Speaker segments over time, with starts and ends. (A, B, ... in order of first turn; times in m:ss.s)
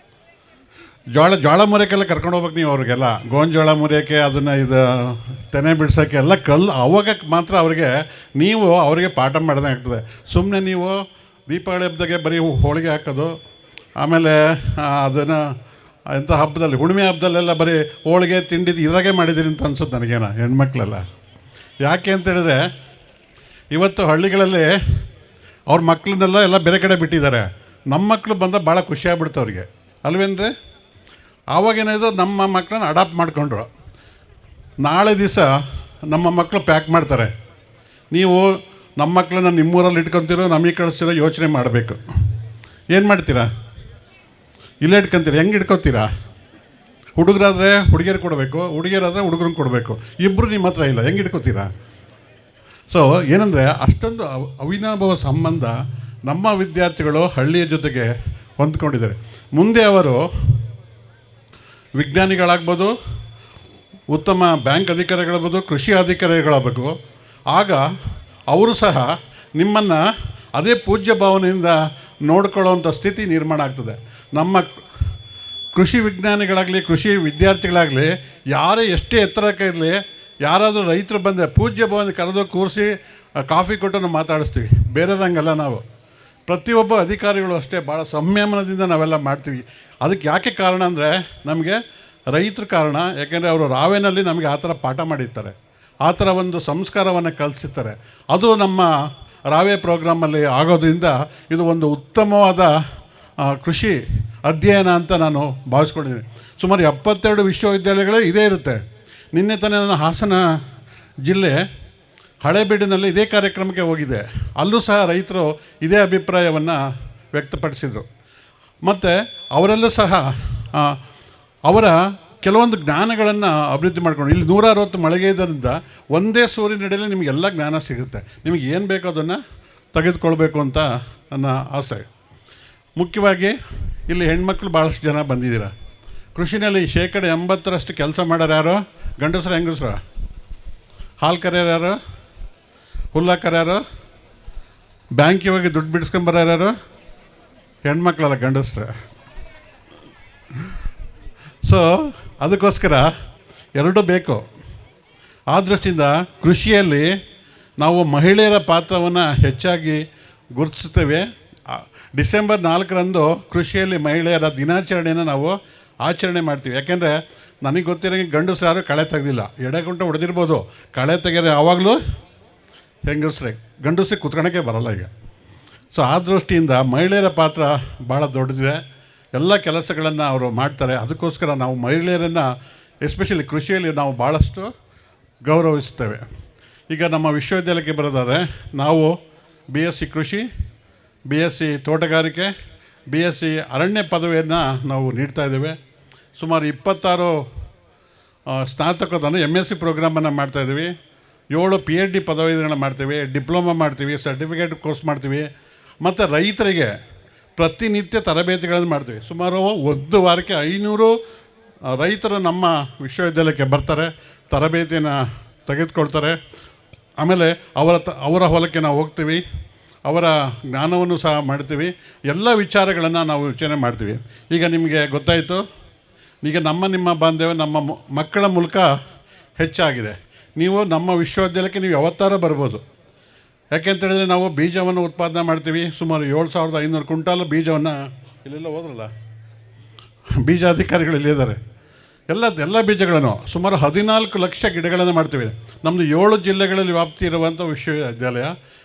0:01.1-0:13.4 A
0:14.0-0:15.5 A
0:16.1-0:21.1 A
0:21.8-0:22.7 A
0:23.7-0:24.7 A
0:25.7-0:30.5 A
0:31.5-0:33.7 A
0:34.8-0:35.5 A
0:36.1-0:37.3 A
0:38.1-0:42.0 A
0:42.9-0:43.5 A
0:44.8-0:46.1 A
0:47.2-0:51.7 A
0:52.9-1:00.6 A
1:02.0-1:02.9 A
1:04.1-1:06.9 A
1:07.5-1:07.8 A
1:08.5-1:10.0 A
1:10.5-1:14.7 A
1:15.7-1:25.8 A
1:26.5-1:31.8 A
1:32.3-1:38.9 A
1:39.5-1:42.7 A
1:43.4-1:48.8 A
1:49.3-1:50.4 A
1:51.2-1:51.6 A
1:52.4-1:56.8 A
1:57.3-1:58.1 A
1:58.8-2:01.0 A
2:01.6-2:09.4 A
2:09.9-2:12.1 A
2:13.0-2:15.7 A
2:16.3-2:20.0 A
2:21.2-2:22.0 A
2:23.1-2:23.8 A
2:25.2-2:26.7 A
2:27.8-2:28.9 A
2:31.6-2:33.1 A
2:33.8-2:34.4 A
2:35.5-2:37.1 A
2:37.8-2:52.0 A
2:53.1-2:55.1 A
2:55.9-2:58.8 A
2:59.3-3:02.5 A
3:03.0-3:04.7 A
3:05.4-3:06.2 A
3:06.9-3:09.1 A
3:09.7-3:10.4 A
3:11.3-3:12.5 A
3:13.1-3:15.8 A
3:16.4-3:17.4 A
3:18.5-3:20.9 A
3:21.5-3:25.5 A
3:26.0-3:26.9 A
3:27.6-3:31.2 A
3:31.9-3:36.4 A
3:37.2-3:39.4 A
3:40.1-3:45.6 A
3:46.4-3:48.9 A
3:49.6-3:52.8 A
3:53.7-3:59.1 A
4:00.4-4:01.6 A
4:02.3-4:08.5 A